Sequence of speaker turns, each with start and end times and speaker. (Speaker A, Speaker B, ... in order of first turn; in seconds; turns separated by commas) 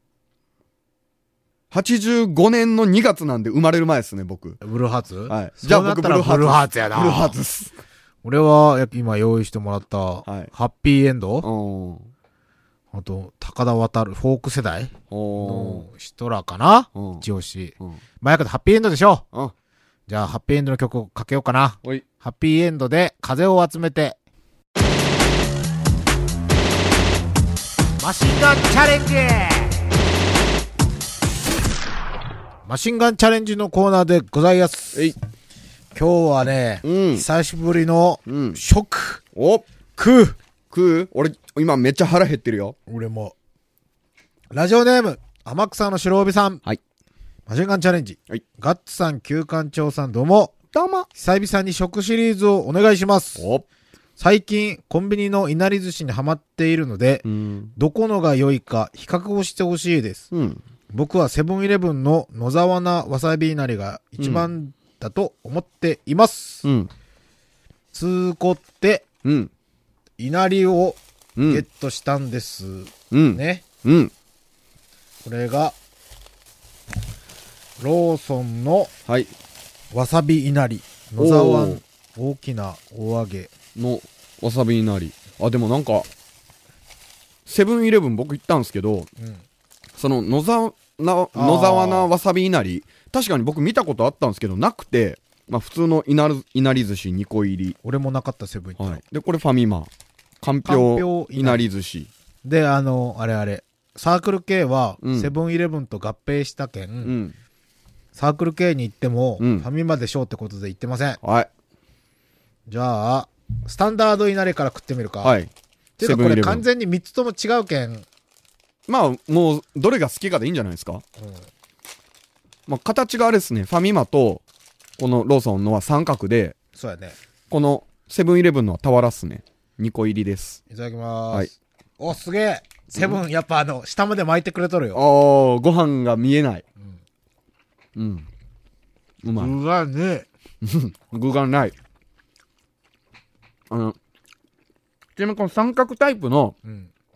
Speaker A: 1.7-4.6, Speaker B: 4.6-7.4, Speaker A: 5.3-7.8, Speaker B: 8.2-11.5, Speaker A: 10.2-10.5, Speaker A: 11.4-12.1, Speaker B: 12.9-19.2, Speaker A: 15.1-15.9, Speaker A: 16.9-17.2, Speaker B: 20.1-24.2, Speaker B: 28.0-29.8, Speaker B: 32.6-35.1, Speaker B: 35.9-39.2, Speaker A: 36.8-37.2, Speaker A: 38.2-38.6, Speaker A: 39.3-39.6, Speaker B: 40.0-40.4, Speaker A: 40.7-42.8, Speaker B: 42.9-43.3, Speaker B: 44.5-46.6, Speaker B: 47.5-50.5, Speaker A: 50.7-51.1, Speaker B: 51.1-53.5, Speaker A: 53.4-53.6, Speaker B: 54.2-57.2, Speaker A: 57.2-57.7, Speaker B: 57.8-60.3, Speaker A: 60.3-60.6, Speaker B: 60.9-66.6, Speaker A: 64.2-64.5, Speaker A: 66.6-66.9, Speaker B: 67.9-69.0, Speaker A: 69.2-69.5, Speaker B: 70.2-73.6, Speaker A: 71.3-71.6, Speaker A: 73.1-74.1, Speaker B: 75.2-75.8, Speaker B: 77.8-78.9, Speaker A: 79.0-79.3, Speaker B: 79.9-83.5, Speaker A: 81.2-81.8, Speaker A: 83.7-86.1, Speaker A: 87.5-89.1, Speaker B: 89.2-89.4, Speaker A: 90.0-97.8, Speaker B: 91.3-92.1, Speaker B: 97.8-99.0, Speaker A: 98.8-102.1, Speaker B: 100.6-101.6, Speaker B: 102.4-107.2, Speaker A: 105.0-105.3, Speaker A: 107.0-107.3, Speaker B: 108.1-111.2, Speaker A: 109.4-109.7, Speaker A: 111.2-111.5, Speaker B: 112.7-115.3, Speaker A: 115.2-116.6, Speaker B: 116.0-118.0, Speaker A: 118.9-121.0, Speaker B: 121.2-121.5, Speaker A: 122.7-124.4, Speaker A: 125.0-126.5, Speaker B: 126.8-127.2, Speaker A: 127.5-130.6, Speaker B: 130.7-135.0, Speaker A: 132.9-133.2, Speaker A: 134.9-136.6, Speaker A: 137.9-138.3, Speaker A: 139.2-139.5, Speaker B: 139.3-140.3, Speaker A: 140.6-141.7, Speaker A: 143.7-143.9, Speaker A: 145.2-146.6, Speaker B: 146.6-146.9